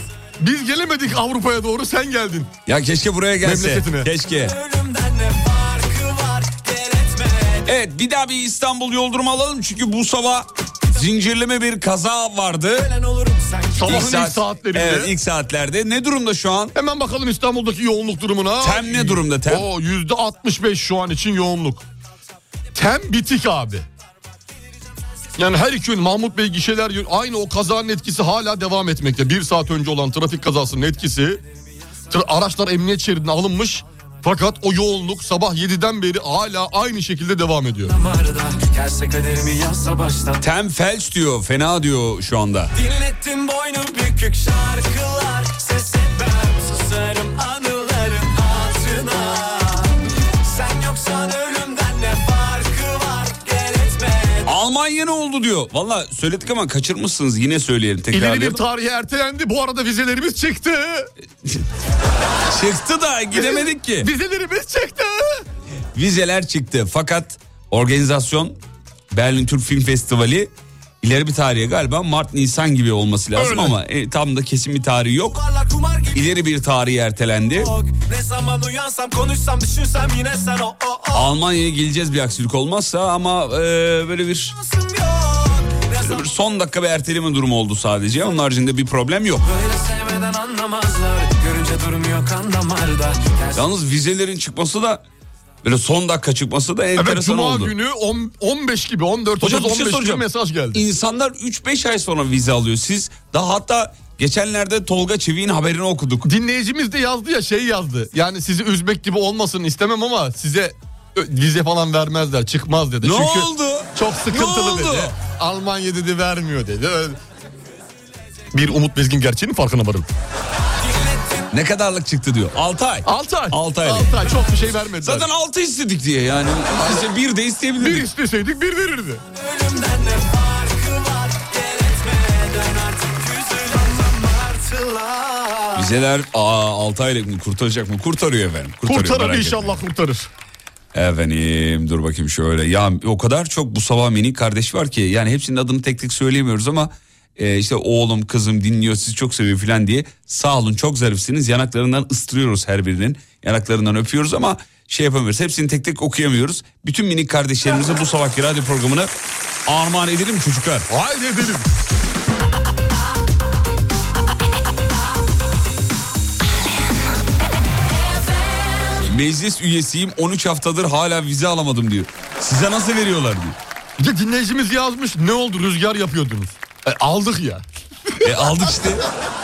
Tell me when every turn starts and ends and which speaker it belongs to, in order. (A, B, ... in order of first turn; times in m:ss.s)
0:00.4-0:02.5 A
0:02.6-0:04.6 B
0:03.4-0:04.1 A
0:04.3-0:07.7 C
0:07.6-0:12.9 B
0:12.7-0:14.0 C
0:13.7-0:15.1 A
0:13.8-0:16.7 B
0:16.7-0:21.8 A
0:18.6-0:19.7 B
0:22.7-0:23.9 A
0:25.4-0:31.4 A
0:32.1-0:37.9 A
0:37.8-0:40.4 C
0:40.4-0:42.7 B
0:42.7-0:54.5 C
0:54.4-0:58.6 B
0:58.1-1:01.1 A
1:02.5-1:04.1 B
1:03.3-1:05.4 A
1:05.9-1:08.6 B
1:09.1-1:15.4 B
1:13.4-1:13.7 A
1:15.2-1:16.4 C
1:16.1-1:17.7 B
1:17.5-1:21.3 C
1:21.1-1:24.5 B
1:24.6-1:26.2 C
1:26.0-1:29.5 B
1:29.4-1:33.7 C
1:33.5-1:35.0 B
1:35.6-1:37.7 B
1:37.0-1:40.8 A
1:39.4-1:46.3 B
1:46.2-1:57.2 A
1:53.0-1:55.1 B
1:58.5-2:00.1 A
2:00.8-2:01.5 C
2:01.5-2:04.4 B
2:03.0-2:05.3 A
2:05.0-2:08.1 B
2:06.8-2:07.1 A
2:07.8-2:09.2 A
2:09.3-2:15.9 C
2:15.7-2:19.8 B
2:18.8-2:20.3 A
2:20.9-2:39.1 B
2:39.6-2:40.9 B
2:40.9-2:41.7 A
2:49.0-2:53.6 B
2:54.0-2:58.9 A
2:58.2-2:59.1 B